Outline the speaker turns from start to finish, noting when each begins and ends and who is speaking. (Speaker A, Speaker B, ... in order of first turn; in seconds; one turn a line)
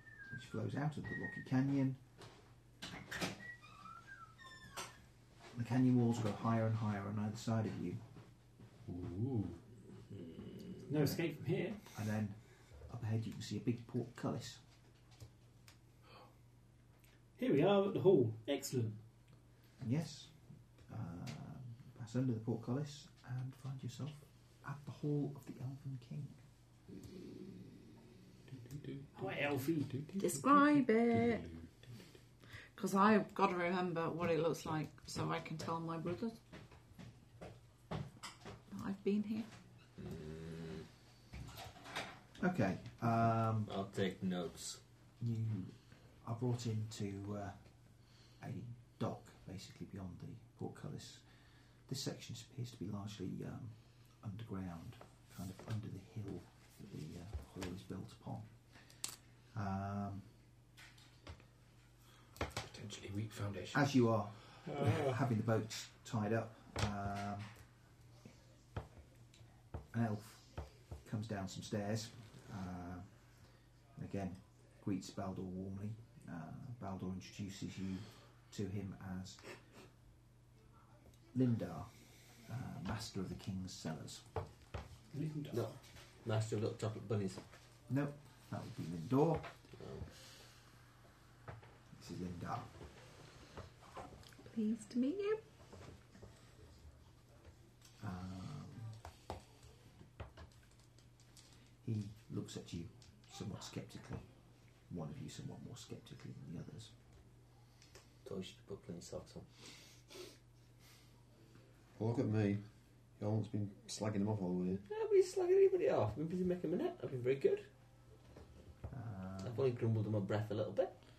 Speaker A: 0.3-2.0
Speaker A: 5.5-8.0
Speaker B: 8.9-9.6
Speaker C: 10.9-11.8
Speaker A: 11.9-14.6
Speaker C: 17.4-19.0
Speaker A: 19.8-20.3
Speaker A: 20.9-26.4
Speaker C: 29.1-30.0
Speaker D: 30.2-31.5
Speaker D: 32.8-36.4
Speaker D: 38.7-39.5
Speaker E: 40.0-40.9
Speaker A: 42.4-43.7
Speaker E: 43.7-44.8
Speaker A: 45.2-58.6
Speaker A: 59.5-60.3
Speaker B: 62.6-63.9
Speaker A: 63.7-67.5
Speaker A: 69.9-73.2
Speaker A: 73.9-79.6
Speaker A: 81.3-84.2
Speaker C: 85.1-85.8
Speaker E: 85.5-87.4
Speaker A: 87.9-89.5
Speaker E: 89.8-90.1
Speaker A: 91.9-92.7
Speaker D: 94.5-95.4
Speaker A: 98.0-99.0
Speaker A: 101.8-104.3
Speaker A: 104.9-106.9
Speaker E: 108.2-109.5
Speaker F: 112.0-114.8
Speaker E: 114.9-117.7
Speaker A: 118.9-119.6
Speaker E: 119.4-120.9